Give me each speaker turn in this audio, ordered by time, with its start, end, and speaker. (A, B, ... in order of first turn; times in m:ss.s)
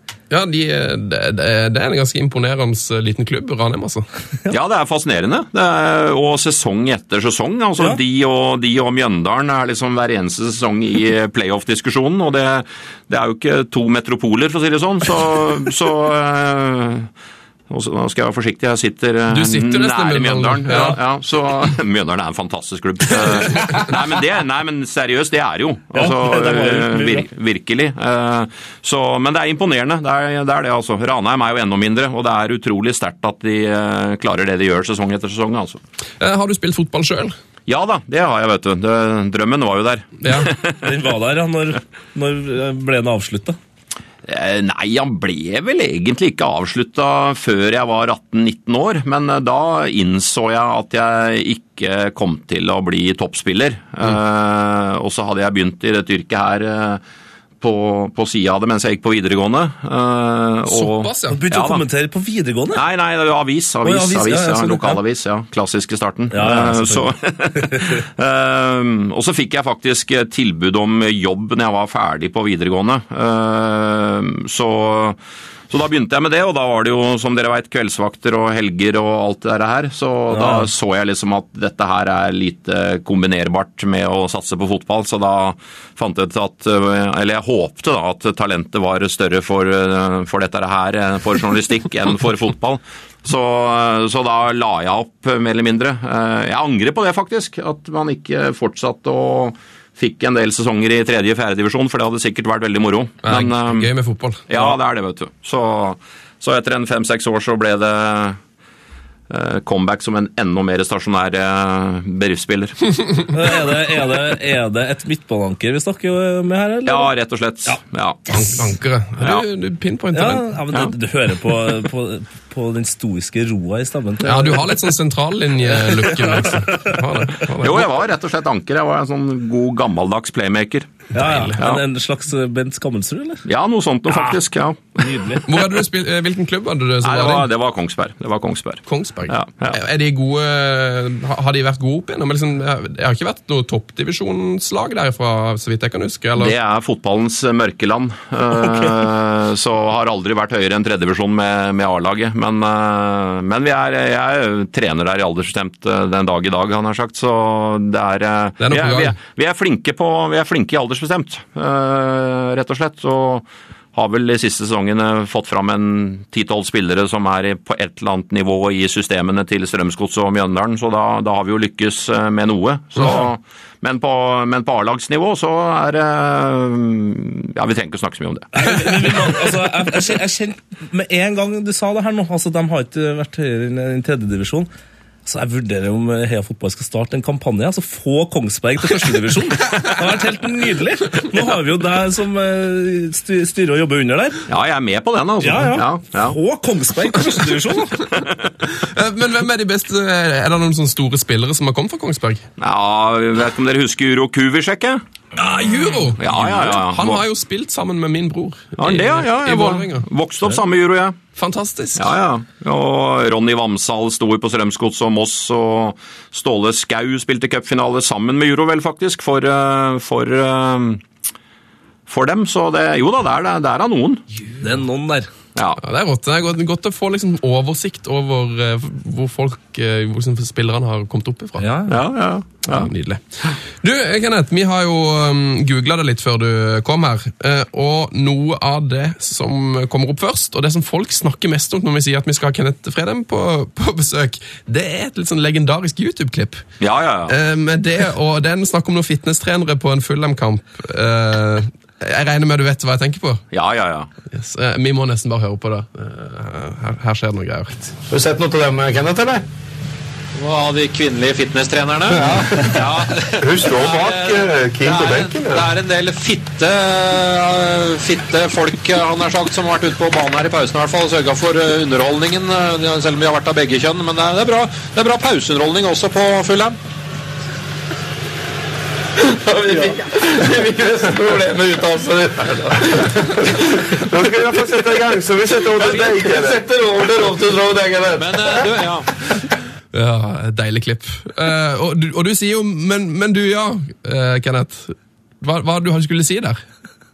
0:00.3-0:04.0 A
0:04.5-0:17.1 B
0:17.7-0:35.8 B
0:19.3-0:21.0 A
0:25.9-0:27.2 C
0:36.2-0:37.3 A
0:37.7-0:40.8 B
0:40.2-0:40.5 A
0:40.8-0:43.6 C
0:44.2-0:57.0 B
0:57.6-1:01.8 B
1:00.7-1:01.4 A
1:01.3-1:02.8 C
1:02.7-1:15.2 B
1:03.8-1:05.0 C
1:06.3-1:07.9 C
1:15.7-1:43.9 B
1:20.3-1:20.7 C
1:43.2-1:44.4 A
1:44.5-1:48.4 B
1:49.3-1:52.8 B
1:53.3-1:57.1 C
1:56.8-1:58.3 B
1:58.3-1:58.6 C
1:58.3-2:00.5 A
2:00.1-2:04.8 C
2:04.2-2:07.9 A
2:05.6-2:07.0 C
2:07.6-2:11.8 B
2:11.1-2:13.4 C
2:11.2-2:11.6 A
2:13.4-2:15.2 B
2:14.1-2:14.3 C
2:15.0-2:15.4 C
2:15.4-2:17.5 A
2:17.0-2:19.8 B
2:18.9-2:26.6 A
2:26.4-2:59.3 B
2:38.6-2:39.2 A
2:58.5-3:04.7 C
3:05.2-3:14.4 C
3:14.5-3:16.4 B
3:15.4-3:18.0 C
3:18.0-3:18.5 B
3:18.6-3:22.4 A
3:22.6-3:25.0 B
3:25.3-3:30.0 A
3:26.2-3:27.2 B
3:28.8-3:31.2 B
3:31.4-3:32.1 A
3:32.0-3:41.0 B
3:42.1-3:44.2 B
3:44.6-3:45.3 C
3:45.5-3:45.8 B
3:45.8-3:51.6 A
3:51.6-3:52.0 C
3:51.9-3:52.9 B
3:52.7-4:06.6 A
4:06.8-4:07.3 B
4:07.3-4:13.4 A
4:13.5-4:14.1 B
4:14.3-4:18.0 A
4:18.1-4:19.4 D
4:20.4-4:36.7 E
4:22.1-4:25.7 D
4:24.1-4:24.3 B
4:39.2-4:48.7 D
4:45.8-4:46.4 B
4:48.2-4:49.1 B
4:49.9-4:56.6 A